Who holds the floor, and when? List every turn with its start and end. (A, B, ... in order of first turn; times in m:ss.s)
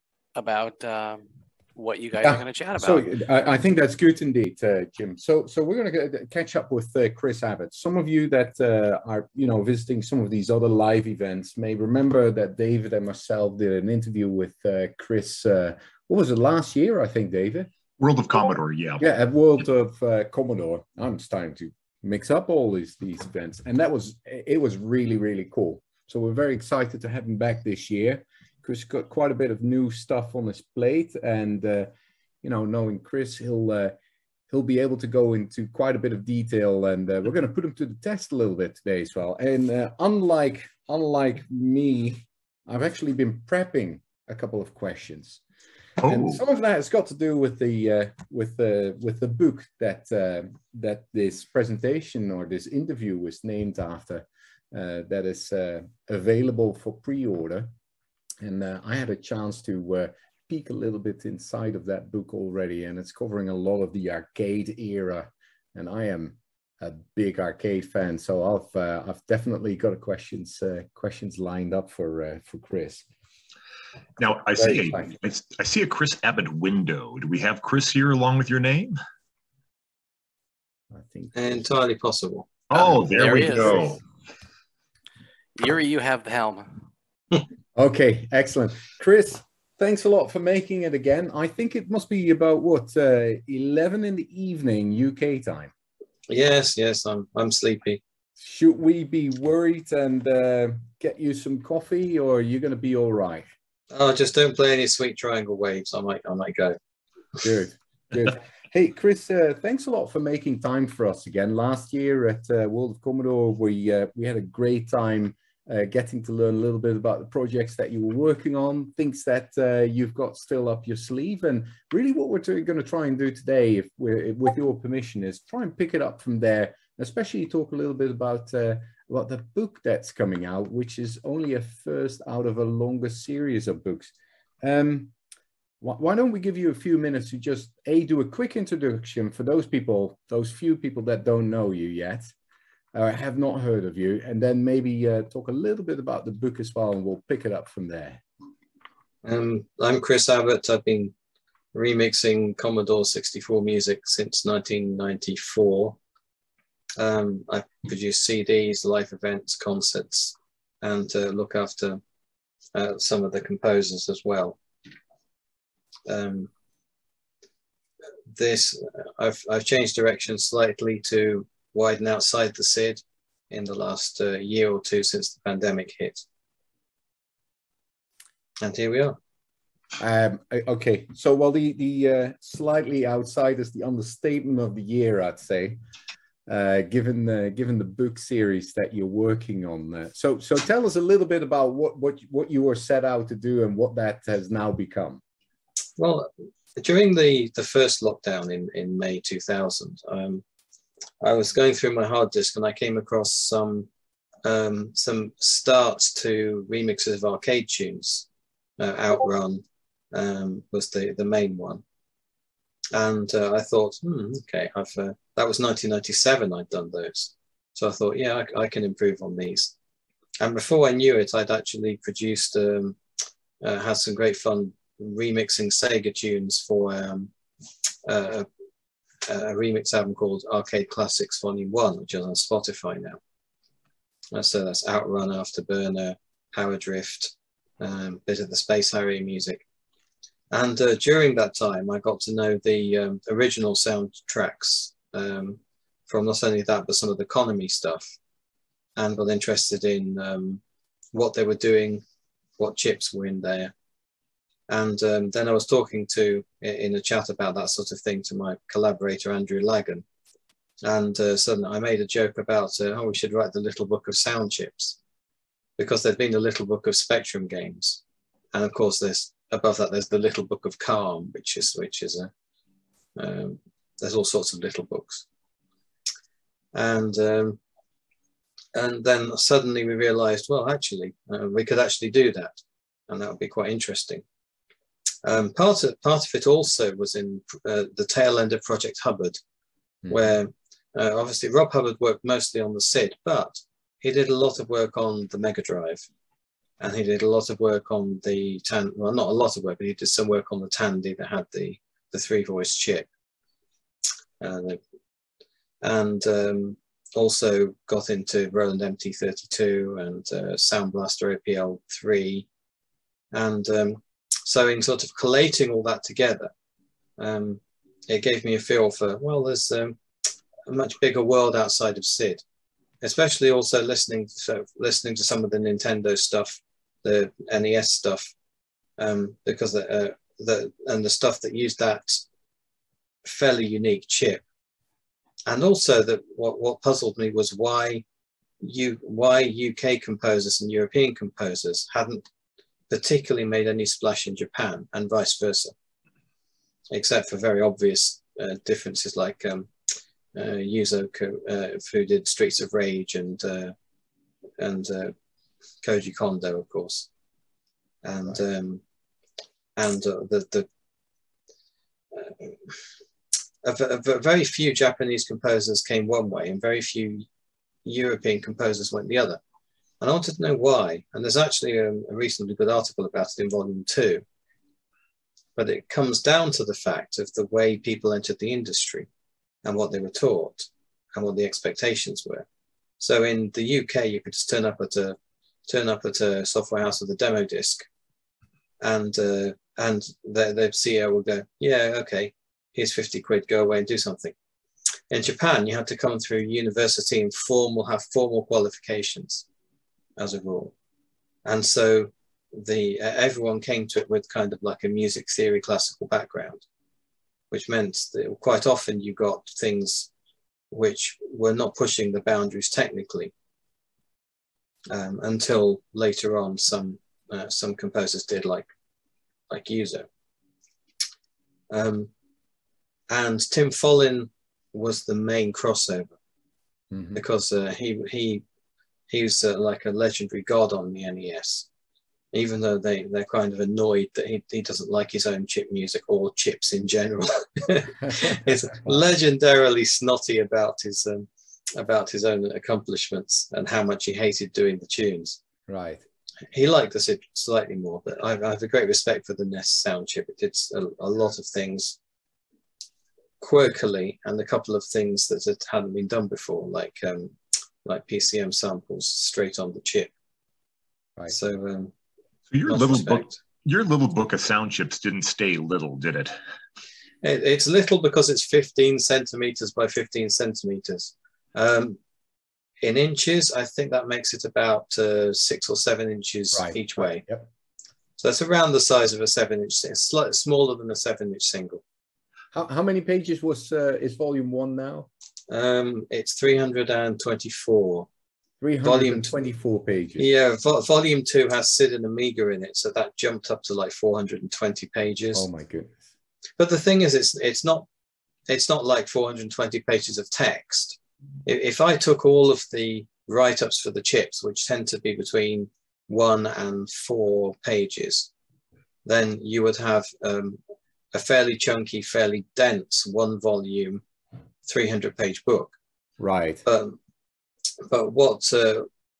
0:00.3-0:01.2 A
0:01.8-0:03.0 A
0:02.2-0:17.7 B
0:18.0-0:19.0 C
0:19.0-0:31.9 B
0:32.4-0:33.9 B
0:34.5-0:45.4 B
0:46.0-0:57.7 B
0:46.0-0:46.4 C
0:58.4-1:13.0 B
1:14.2-1:19.0 C
1:14.6-1:15.2 B
1:20.9-1:21.6 B
1:21.3-1:22.5 D
1:22.7-1:24.0 C
1:22.7-1:24.0 A
1:25.6-1:26.8 A
1:27.7-1:35.7 B
1:36.3-1:38.0 D
1:38.4-1:43.4 B
1:43.9-1:46.8 D
1:47.4-2:14.1 B
2:14.6-2:15.1 B
2:15.8-2:22.3 B
2:22.9-2:28.2 B
2:29.2-2:31.1 D
2:31.7-2:36.0 D
2:37.0-2:42.0 D
2:42.7-2:44.6 D
2:46.0-2:46.5 D
2:48.3-2:56.2 D
2:58.6-2:59.2 D
3:00.0-3:05.8 B
3:06.5-3:15.2 B
3:16.0-3:20.4 D
3:21.2-3:23.9 D
3:24.4-3:28.2 D
3:28.8-3:31.8 D
3:32.9-3:39.7 D
3:40.4-3:43.0 D
3:43.6-3:47.3 D
3:48.0-3:48.5 D
3:49.2-3:53.2 D
3:54.3-3:59.6 D
4:00.5-4:08.1 D
4:09.0-4:10.6 D
4:11.1-4:12.0 D
4:12.6-4:13.7 D
4:14.7-4:20.0 D
4:20.8-4:25.0 D
4:25.8-4:28.0 D
4:28.5-4:32.3 D
4:33.2-4:35.2 D
4:36.7-4:37.6 D
4:38.7-4:44.2 D
4:45.2-4:49.4 D
4:50.0-4:50.3 B
4:50.1-4:56.0 D
4:56.8-5:03.1 D
5:04.4-5:04.8 D
5:05.8-5:12.5 D
5:13.3-5:16.5 D
5:17.2-5:20.0 D
5:20.7-5:22.4 D
5:23.0-5:28.3 D
5:29.0-5:32.2 D
5:33.2-5:34.4 D
5:35.5-5:38.0 D
5:38.6-5:42.2 D
5:42.9-5:45.7 D
5:46.9-5:49.7 D
5:50.3-5:53.7 D
5:54.6-5:55.1 D
5:55.8-5:57.1 D
5:58.0-5:58.8 D
5:59.8-6:00.7 D
6:02.1-6:02.8 D
6:03.6-6:07.2 D
6:07.8-6:09.4 D
6:10.0-6:14.2 D
6:15.6-6:19.1 D
6:19.6-6:22.4 D
6:23.0-6:27.8 D
6:28.8-6:34.3 D
6:35.1-6:39.4 D
6:40.2-6:40.7 D
6:41.4-6:46.6 D
6:47.5-6:50.1 D
6:50.7-6:53.3 D
6:54.9-6:58.7 D
6:59.5-7:00.1 D
7:01.7-7:02.1 D
7:03.1-7:06.1 D
7:06.9-7:07.2 B
7:07.1-7:08.4 D
7:09.1-7:11.7 D
7:12.3-7:25.4 D
7:18.0-7:19.0 B
7:25.7-7:26.0 B
7:26.5-7:32.0 D
7:33.4-7:40.1 D
7:41.3-7:41.9 D
7:42.5-7:46.3 C
7:42.6-7:43.4 D
7:47.2-7:52.0 D
7:52.8-7:57.2 D
7:56.5-7:57.5 B
7:58.2-8:01.8 D
8:02.5-8:05.1 B
8:05.5-8:08.1 D
8:08.6-8:10.2 B
8:08.8-8:09.3 D
8:10.2-8:15.4 D
8:15.3-8:16.0 B
8:16.6-8:17.8 D
8:18.5-8:28.3 D
8:29.0-8:30.6 D
8:31.1-8:34.0 D
8:34.6-8:35.8 D
8:36.2-8:36.6 B
8:36.6-8:37.0 D
8:37.8-8:38.9 D